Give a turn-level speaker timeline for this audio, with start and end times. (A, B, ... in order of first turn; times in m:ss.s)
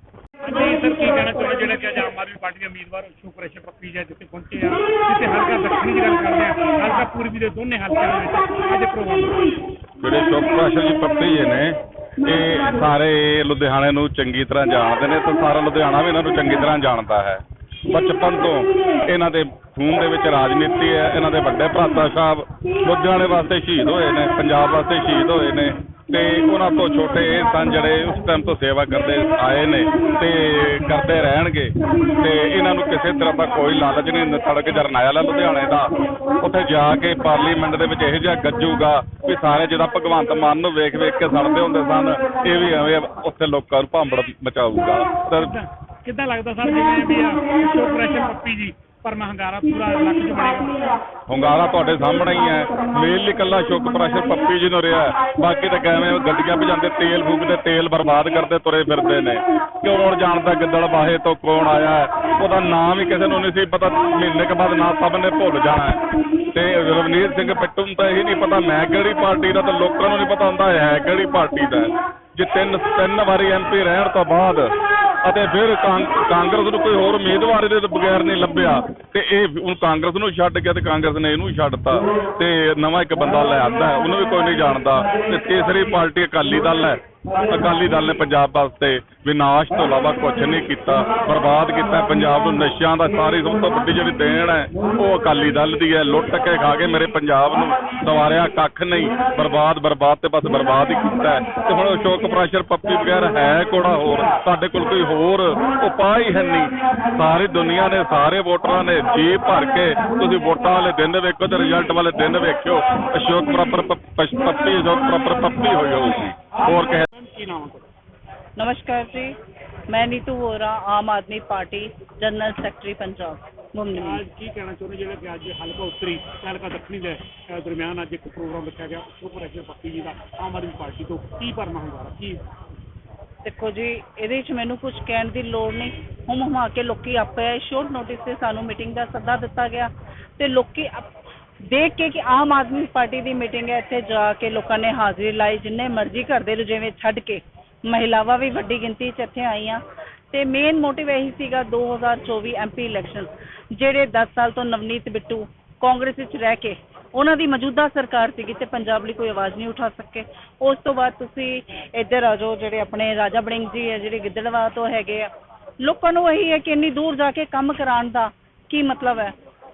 0:00.4-0:09.4 A
0:10.0-0:45.5 B
0:45.5-0:50.9 A
0:51.3-1:06.0 B
1:06.5-1:14.7 B
1:15.2-1:57.0 B
1:57.1-1:57.9 A
1:58.6-1:59.4 C
1:59.9-2:04.2 C
2:04.0-2:12.4 A
2:13.4-2:21.1 C
2:21.7-2:45.3 C
2:45.8-2:49.3 C